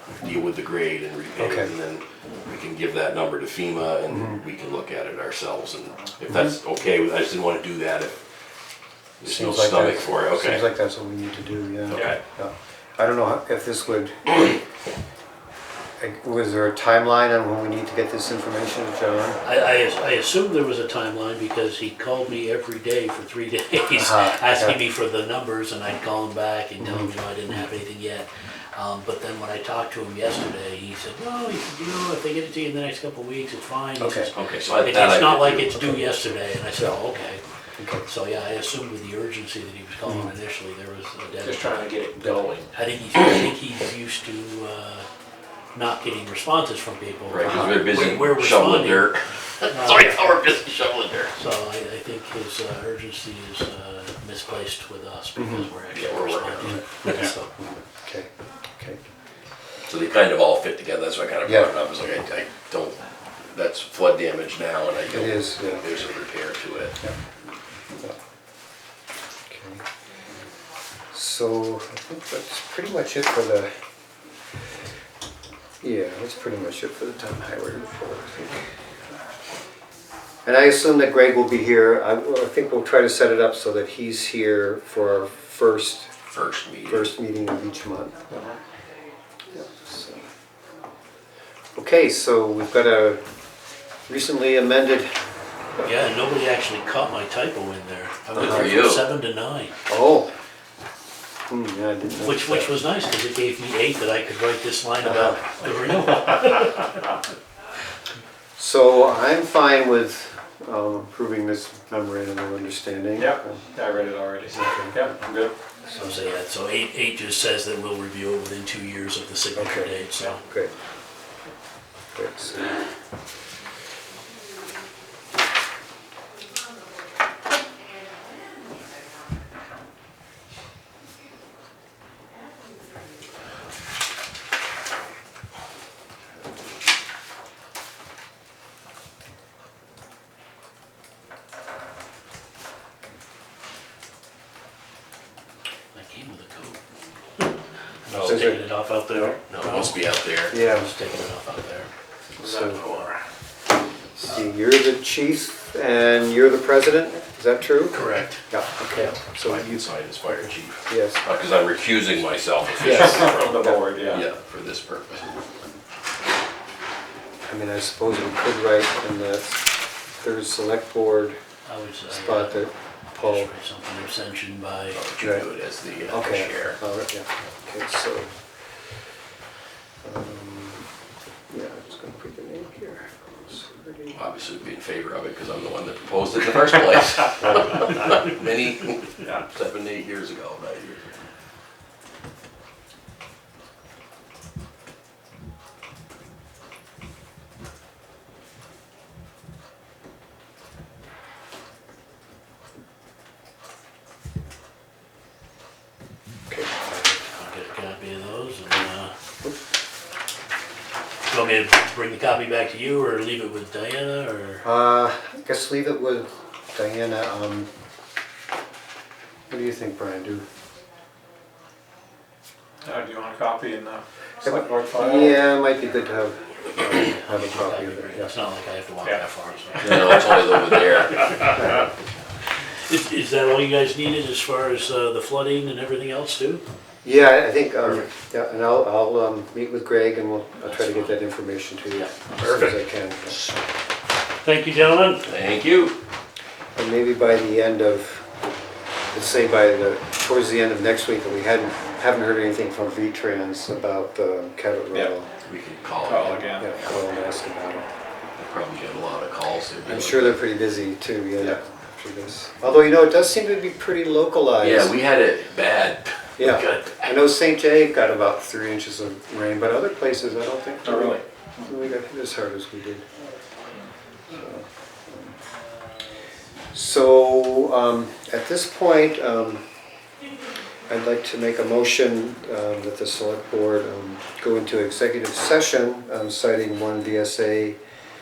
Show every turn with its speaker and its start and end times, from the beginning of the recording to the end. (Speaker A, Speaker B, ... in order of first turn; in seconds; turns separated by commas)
Speaker A: 0.2-8.2, Speaker B: 1.4-1.7, Speaker B: 4.1-4.4, Speaker A: 9.2-10.7, Speaker B: 9.2-14.6, Speaker A: 11.9-12.2, Speaker B: 16.0-19.4, Speaker C: 19.4-37.4, Speaker B: 23.9-24.8, Speaker B: 26.8-27.5, Speaker B: 34.0-34.3, Speaker A: 34.3-35.9, Speaker B: 37.8-38.0, Speaker C: 38.0-45.0, Speaker B: 40.0-40.3, Speaker D: 41.4-42.7, Speaker C: 45.7-49.1, Speaker A: 47.3-51.3, Speaker B: 47.4-47.8, Speaker C: 49.7-50.2, Speaker C: 51.3-57.5, Speaker B: 55.4-55.7, Speaker A: 55.9-57.1, Speaker B: 56.6-59.0, Speaker A: 59.9-67.0, Speaker B: 61.5-61.7, Speaker B: 65.1-66.0, Speaker B: 69.5-69.8, Speaker B: 71.1-73.7, Speaker B: 75.8-78.6, Speaker B: 80.4-86.1, Speaker A: 86.3-87.1, Speaker B: 86.9-88.4, Speaker B: 89.5-90.2, Speaker B: 91.8-93.2, Speaker B: 94.1-95.1, Speaker C: 95.8-99.8, Speaker B: 98.3-98.9, Speaker A: 98.3-99.0, Speaker B: 99.9-100.3, Speaker B: 101.5-102.7, Speaker C: 102.2-106.9, Speaker B: 105.0-105.4, Speaker B: 108.6-113.7, Speaker D: 113.2-115.5, Speaker B: 114.5-115.1, Speaker C: 115.8-120.4, Speaker B: 119.5-120.7, Speaker B: 122.1-122.8, Speaker C: 145.9-146.8, Speaker C: 148.0-151.9, Speaker A: 148.1-148.5, Speaker B: 148.2-148.6, Speaker A: 149.4-150.6, Speaker B: 150.5-150.9, Speaker B: 152.4-152.8, Speaker D: 152.4-153.1, Speaker B: 154.2-161.2, Speaker C: 157.9-158.4, Speaker A: 159.3-163.3, Speaker B: 162.8-164.2, Speaker D: 162.8-164.2, Speaker A: 164.1-165.3, Speaker B: 167.4-169.7, Speaker B: 170.2-171.4, Speaker C: 171.7-175.0, Speaker B: 172.1-173.5, Speaker A: 174.9-176.8, Speaker B: 175.2-175.4, Speaker B: 176.1-178.3, Speaker B: 180.0-180.8, Speaker B: 181.5-184.2, Speaker A: 184.1-191.1, Speaker B: 206.5-207.2, Speaker C: 207.3-209.1, Speaker C: 211.3-214.6, Speaker B: 214.6-217.7, Speaker B: 219.5-220.4, Speaker D: 222.8-225.4, Speaker B: 224.4-228.3, Speaker C: 227.0-231.8, Speaker A: 229.8-231.3, Speaker B: 231.6-231.8, Speaker C: 232.9-236.6, Speaker B: 237.0-243.5, Speaker C: 240.7-241.2, Speaker C: 242.4-242.8, Speaker C: 244.4-245.3, Speaker A: 245.2-245.9, Speaker B: 246.8-248.2, Speaker B: 249.1-255.3, Speaker A: 255.4-256.4, Speaker D: 256.0-256.7, Speaker B: 256.3-257.9, Speaker A: 258.4-260.4, Speaker B: 259.9-264.9, Speaker A: 264.6-267.1, Speaker B: 266.4-273.0, Speaker D: 270.8-271.2, Speaker B: 274.3-275.4, Speaker B: 276.7-279.6, Speaker B: 280.9-287.8